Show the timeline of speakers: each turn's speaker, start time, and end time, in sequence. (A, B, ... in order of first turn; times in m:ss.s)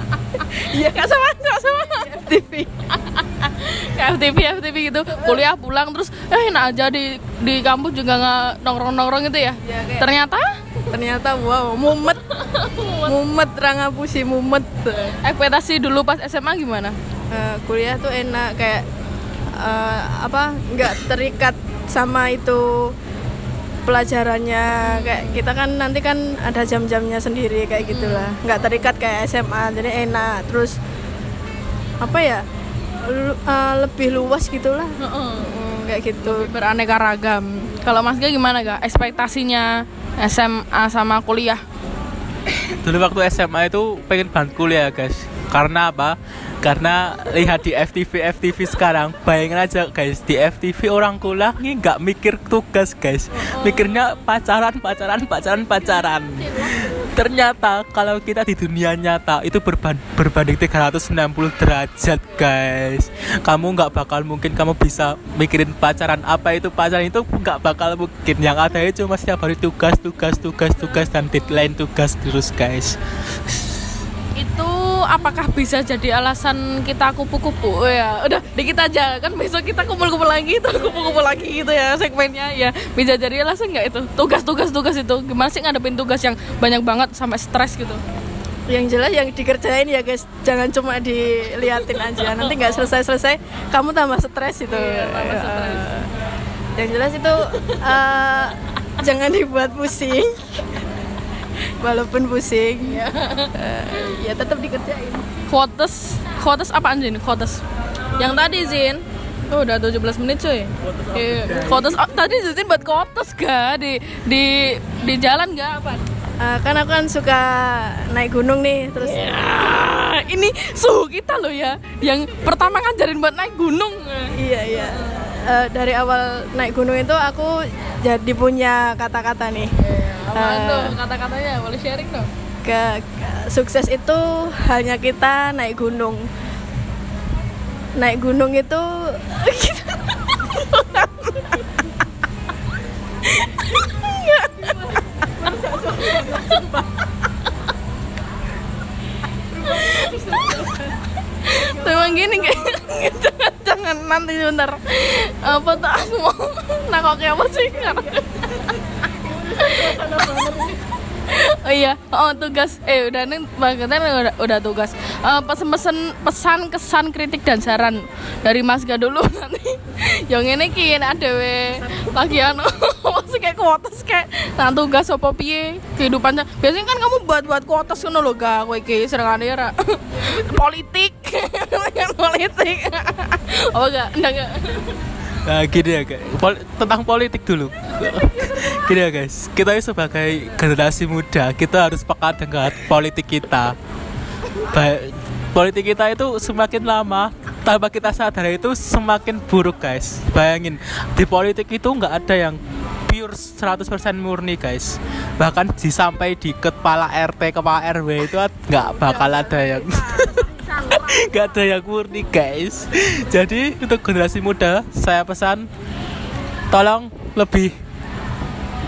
0:00.5-0:02.2 A
0:00.8-0:01.1 B
0:01.9-0:02.7 B
0:03.0-0:10.7 A
0:09.7-0:10.1 B
0:10.9-0:12.2 B
0:12.3-0:13.1 A
0:13.0-0:15.2 B
0:15.2-0:17.0 A
0:17.3-0:18.8 B
0:19.6-0:22.9 B
0:23.9-0:30.8 B
0:24.8-0:25.4 A
0:27.8-0:28.4 A
0:32.0-0:32.4 B
0:33.0-0:36.5 B
0:35.0-0:35.6 A
0:36.2-0:41.6 A
0:42.6-1:13.0 C
0:53.3-0:54.1 A
1:11.0-1:11.6 A
1:14.4-1:28.0 A
1:28.7-1:36.1 B
1:34.7-1:36.0 A
1:36.8-1:40.6 B
1:41.8-1:43.0 B
1:42.9-1:43.5 A
1:43.5-1:45.3 B
1:45.5-1:47.6 A
1:48.2-1:56.0 A
1:51.1-1:51.9 C
1:56.4-1:59.2 B
1:59.0-2:05.2 A
2:04.4-2:09.7 B
2:09.8-2:12.3 A
2:10.3-2:11.0 B
2:12.6-2:16.2 B
2:18.0-2:20.2 B
2:20.6-2:21.4 A
2:23.2-2:26.9 A
2:29.5-2:30.9 A
2:31.4-3:05.0 A
3:05.4-3:13.8 C
3:14.7-3:35.7 C
3:36.7-3:37.7 C